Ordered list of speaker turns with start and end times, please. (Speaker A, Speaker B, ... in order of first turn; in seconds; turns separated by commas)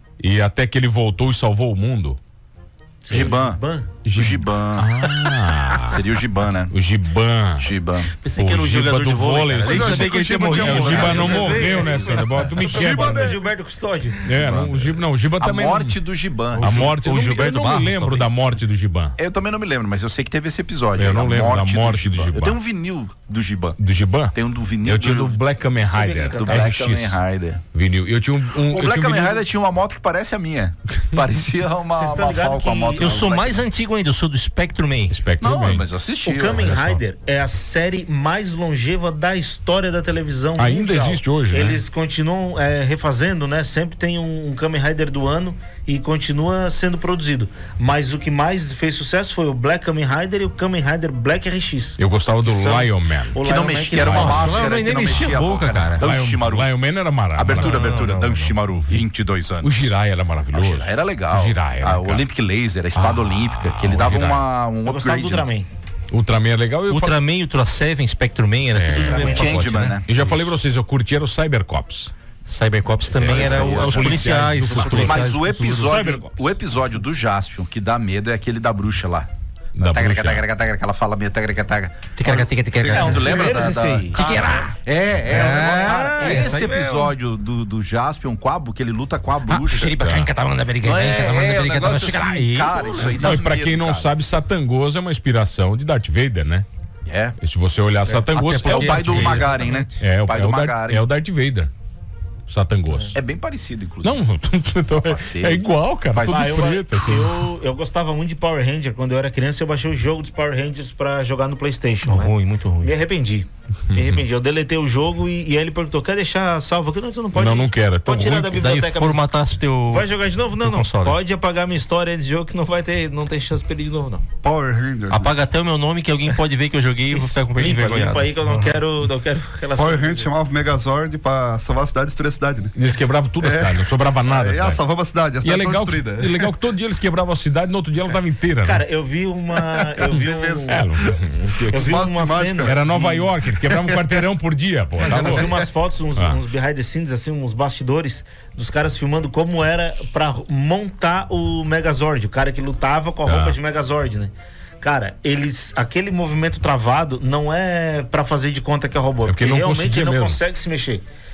Speaker A: 0.2-2.2, Speaker B: 3.0-3.9, Speaker C: 3.1-3.6, Speaker A: 4.0-6.0, Speaker C: 4.1-5.1, Speaker C: 5.8-6.7, Speaker A: 6.7-7.7, Speaker C: 7.6-8.1, Speaker D: 8.1-11.9, Speaker A: 8.3-13.4, Speaker E: 9.6-13.4, Speaker C: 9.6-12.2, Speaker B: 12.9-14.2, Speaker A: 14.2-16.0, Speaker C: 14.3-18.3, Speaker A: 16.5-19.1, Speaker C: 19.2-23.8, Speaker A: 20.9-22.6, Speaker A: 23.8-27.2, Speaker C: 24.3-25.4, Speaker B: 25.8-26.7, Speaker C: 26.4-27.6, Speaker A: 27.7-29.4, Speaker C: 28.6-33.6, Speaker B: 31.9-33.2, Speaker D: 33.0-35.1, Speaker A: 35.1-35.8, Speaker C: 35.4-37.0, Speaker B: 36.2-54.6, Speaker A: 40.6-41.8, Speaker A: 52.0-53.4, Speaker C: 53.4-56.7, Speaker A: 54.0-54.6, Speaker D: 54.0-56.1, Speaker A: 56.0-58.0, Speaker C: 57.3-59.9, Speaker D: 57.6-58.5, Speaker A: 59.6-62.2, Speaker C: 60.5-65.5, Speaker A: 62.9-64.4, Speaker B: 64.8-65.7, Speaker A: 66.1-67.2, Speaker D: 66.9-70.0, Speaker A: 68.7-69.5, Speaker B: 68.9-69.6, Speaker C: 69.0-70.5, Speaker A: 70.0-72.1, Speaker D: 72.5-76.0, Speaker A: 73.1-75.3, Speaker C: 73.1-90.0, Speaker B: 75.8-76.4, Speaker A: 79.8-80.5, Speaker D: 82.1-87.1, Speaker E: 82.8-83.7, Speaker B: 82.8-84.1, Speaker B: 85.3-87.1, Speaker D: 89.5-93.3, Speaker A: 90.0-90.3, Speaker C: 90.8-94.1, Speaker A: 93.2-96.7, Speaker C: 97.0-97.4, Speaker A: 97.4-101.7, Speaker D: 98.0-100.0, Speaker C: 98.6-101.0, Speaker A: 102.5-103.2, Speaker C: 103.1-104.2, Speaker A: 104.0-107.3, Speaker C: 105.0-106.6, Speaker B: 106.2-119.2, Speaker D: 112.0-112.9, Speaker A: 113.9-114.2, Speaker A: 117.3-118.7, Speaker D: 118.5-120.1, Speaker B: 119.9-124.2, Speaker D: 120.6-121.2, Speaker E: 124.4-125.3, Speaker D: 125.1-128.8, Speaker B: 127.1-130.3, Speaker E: 129.7-132.7, Speaker A: 132.7-134.8, Speaker E: 133.4-136.5, Speaker A: 135.4-138.8, Speaker B: 138.6-140.9, Speaker E: 139.7-141.2, Speaker A: 140.7-141.9, Speaker B: 141.7-142.9, Speaker E: 141.7-144.2, Speaker A: 142.6-145.5, Speaker E: 145.0-145.6, Speaker B: 145.0-161.0, Speaker A: 153.2-153.6, Speaker A: 159.2-160.4